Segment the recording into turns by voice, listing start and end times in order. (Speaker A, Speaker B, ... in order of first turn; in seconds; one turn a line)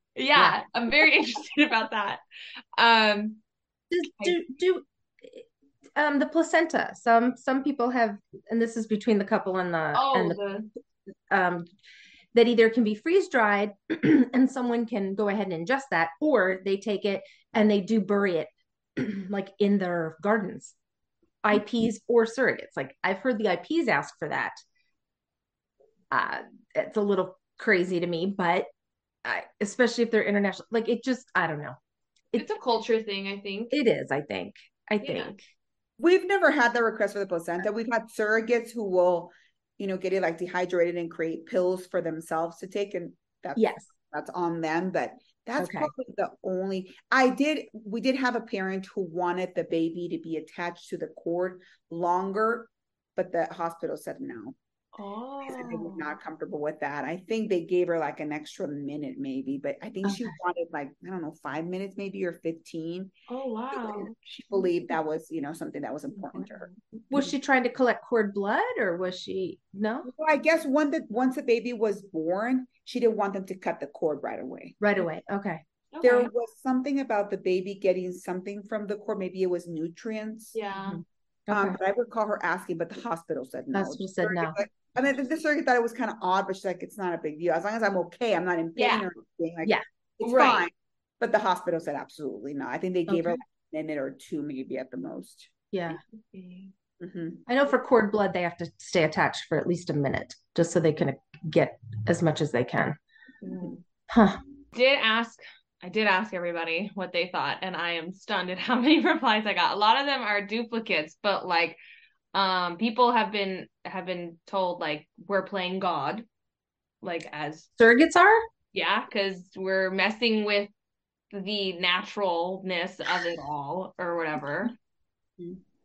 Speaker A: 0.2-2.2
Speaker A: 2.8-3.4
Speaker B: 3.9-10.4
Speaker A: 9.9-10.7
Speaker B: 11.3-11.7
Speaker B: 12.3-20.8
Speaker B: 21.4-24.6
Speaker B: 26.1-28.7
Speaker B: 29.2-31.8
Speaker A: 32.4-33.8
Speaker B: 33.7-35.5
Speaker A: 35.0-35.4
Speaker C: 36.0-54.6
Speaker B: 43.6-43.9
Speaker B: 45.6-45.9
Speaker A: 55.0-56.1
Speaker C: 55.5-63.1
Speaker B: 60.0-60.4
Speaker A: 63.3-64.7
Speaker C: 63.7-67.3
Speaker A: 66.1-66.8
Speaker B: 67.1-70.1
Speaker C: 70.1-74.8
Speaker B: 74.8-75.6
Speaker A: 75.9-76.3
Speaker C: 76.0-80.6
Speaker A: 80.5-81.0
Speaker B: 80.9-81.8
Speaker C: 81.5-95.5
Speaker B: 83.7-84.6
Speaker A: 88.8-89.1
Speaker A: 90.2-90.7
Speaker B: 93.1-93.4
Speaker B: 95.7-96.0
Speaker A: 95.9-96.7
Speaker C: 97.0-97.5
Speaker B: 97.5-103.0
Speaker A: 103.4-103.8
Speaker B: 104.1-104.4
Speaker A: 104.7-111.8
Speaker A: 112.3-116.3
Speaker A: 117.0-117.7
Speaker B: 117.8-118.4
Speaker A: 118.7-120.7
Speaker A: 121.3-124.8